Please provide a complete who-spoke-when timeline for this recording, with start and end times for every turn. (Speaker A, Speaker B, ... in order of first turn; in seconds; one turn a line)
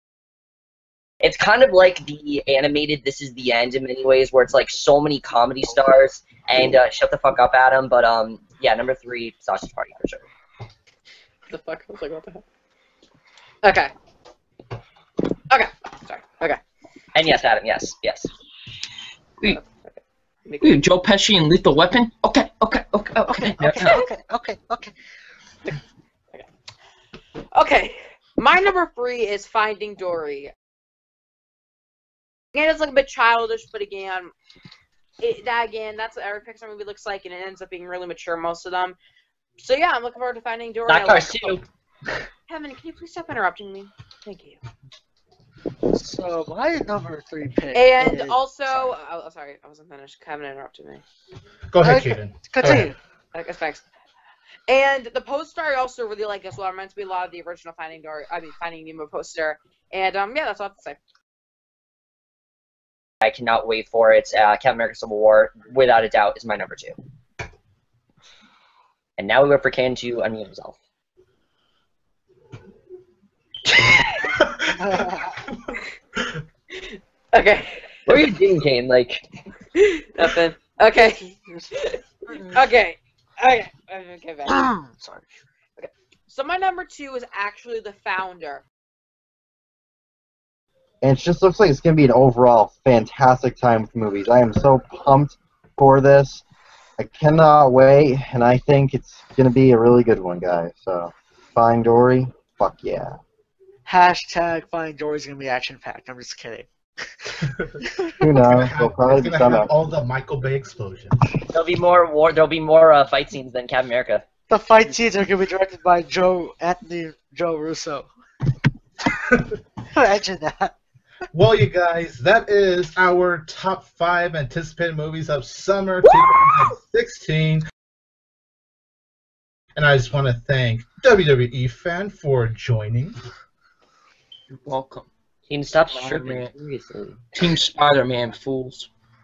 Speaker A: 1.2-10.2
Speaker B: 11.5-12.4
Speaker B: 13.6-13.9
Speaker B: 15.5-16.6
Speaker A: 17.1-18.3
Speaker B: 19.4-20.8
Speaker C: 20.6-24.1
Speaker D: 23.3-24.9
Speaker A: 23.6-23.9
Speaker B: 27.5-30.5
Speaker B: 32.5-34.3
Speaker B: 35.2-39.0
Speaker B: 39.6-41.6
Speaker A: 40.9-41.6
Speaker B: 42.5-44.6
Speaker D: 45.9-49.0
Speaker B: 47.7-51.0
Speaker E: 51.7-52.9
Speaker D: 51.8-53.0
Speaker B: 53.3-53.8
Speaker B: 54.7-61.0
Speaker A: 63.2-67.0
Speaker A: 69.2-70.8
Speaker E: 74.3-75.0
Speaker D: 74.8-75.3
Speaker B: 76.8-77.9
Speaker A: 78.1-79.2
Speaker B: 79.8-81.3
Speaker D: 81.0-81.7
Speaker B: 82.5-84.7
Speaker D: 84.5-85.3
Speaker B: 85.8-88.6
Speaker F: 91.0-96.4
Speaker F: 97.0-103.2
Speaker D: 103.9-106.7
Speaker F: 108.2-109.7
Speaker E: 108.5-111.2
Speaker A: 111.5-114.2
Speaker D: 114.5-118.1
Speaker D: 119.9-120.7
Speaker E: 121.3-127.6
Speaker E: 129.8-133.2
Speaker C: 134.5-135.1
Speaker A: 135.5-137.2
Speaker C: 135.9-136.5
Speaker C: 137.3-138.9